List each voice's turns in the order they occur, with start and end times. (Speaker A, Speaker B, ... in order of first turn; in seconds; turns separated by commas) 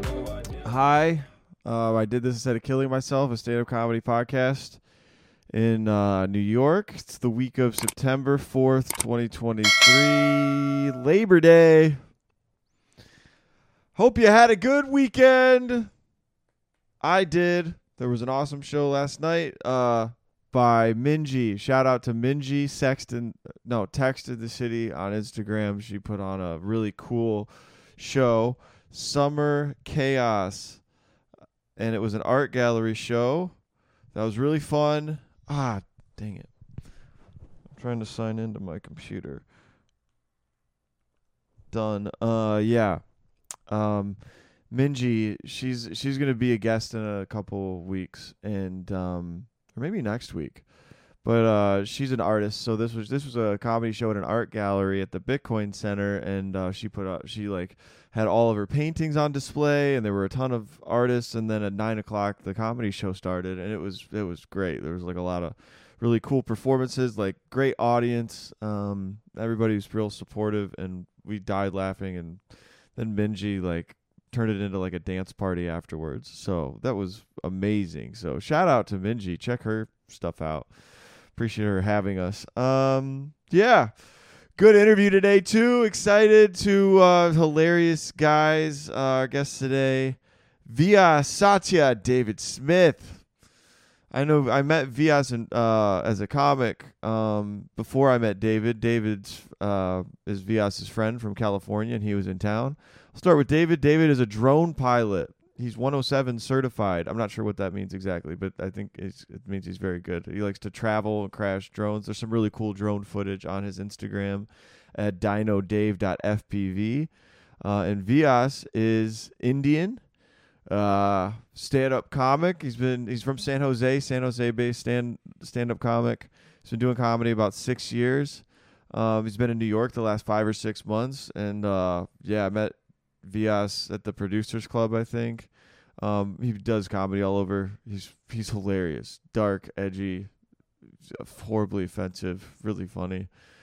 Speaker A: 0.6-4.8, Speaker A: 5.5-12.0, Speaker A: 13.9-15.9, Speaker A: 17.0-30.8, Speaker A: 31.8-33.6, Speaker A: 34.1-36.5, Speaker A: 37.7-39.5, Speaker A: 41.7-43.1, Speaker A: 43.6-50.6, Speaker A: 51.2-72.4, Speaker A: 73.0-93.3, Speaker A: 94.1-120.0, Speaker A: 120.7-140.3, Speaker A: 141.0-143.3